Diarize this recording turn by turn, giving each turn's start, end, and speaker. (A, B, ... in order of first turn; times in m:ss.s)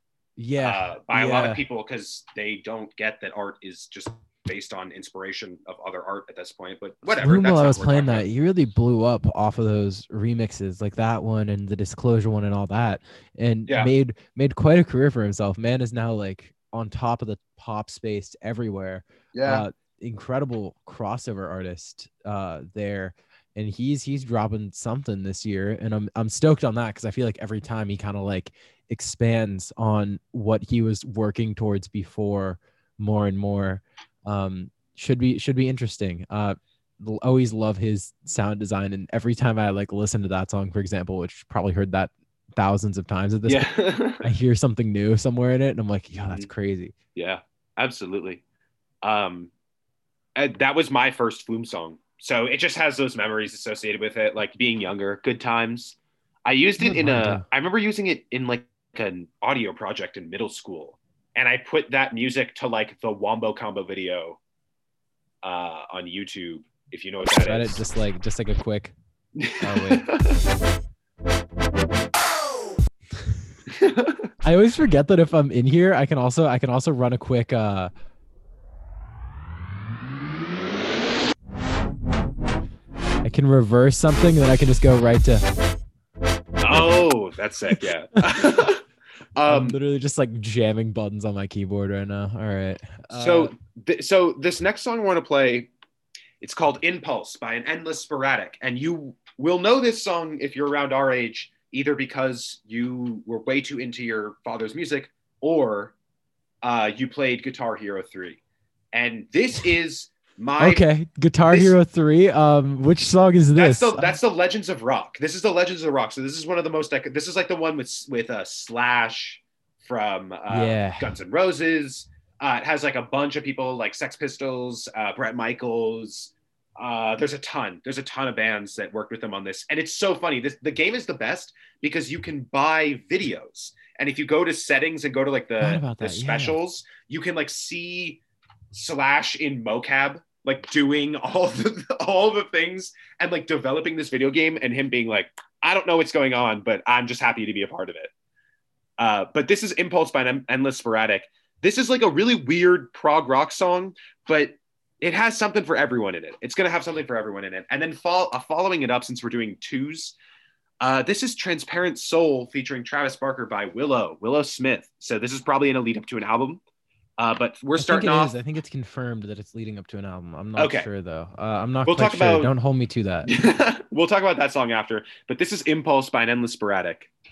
0:00.4-0:01.6 A
0:00.6-0:08.3 B
0:07.1-0:43.7 A
0:13.7-0:13.9 B
0:19.3-0:19.6 B
0:43.5-0:44.3 B
0:44.2-0:46.9 A
0:47.2-0:48.4 B
0:49.0-0:49.5 B
0:50.4-1:04.4 B
0:56.8-0:57.4 A
1:05.4-1:07.8 B
1:07.3-1:08.9 A
1:09.4-1:10.3 B
1:09.6-1:10.1 A
1:13.7-1:14.3 B
1:14.4-1:17.9 A
1:23.2-1:25.4 A
1:26.6-1:28.8 B
1:29.4-1:29.8 B
1:29.5-1:33.5 A
1:33.1-1:35.7 B
1:36.4-1:45.9 B
1:46.6-1:48.4 B
1:48.9-1:50.8 B
1:50.6-1:54.2 A
1:53.6-2:18.2 B
2:00.5-2:01.1 A
2:15.6-2:16.6 A
2:18.7-2:28.1 B
2:29.0-2:40.2 B
2:40.8-2:46.6 B
2:47.2-2:48.3 B
2:47.8-2:53.3 A
2:50.6-2:50.9 B
2:51.8-2:52.5 B
2:53.3-2:57.1 B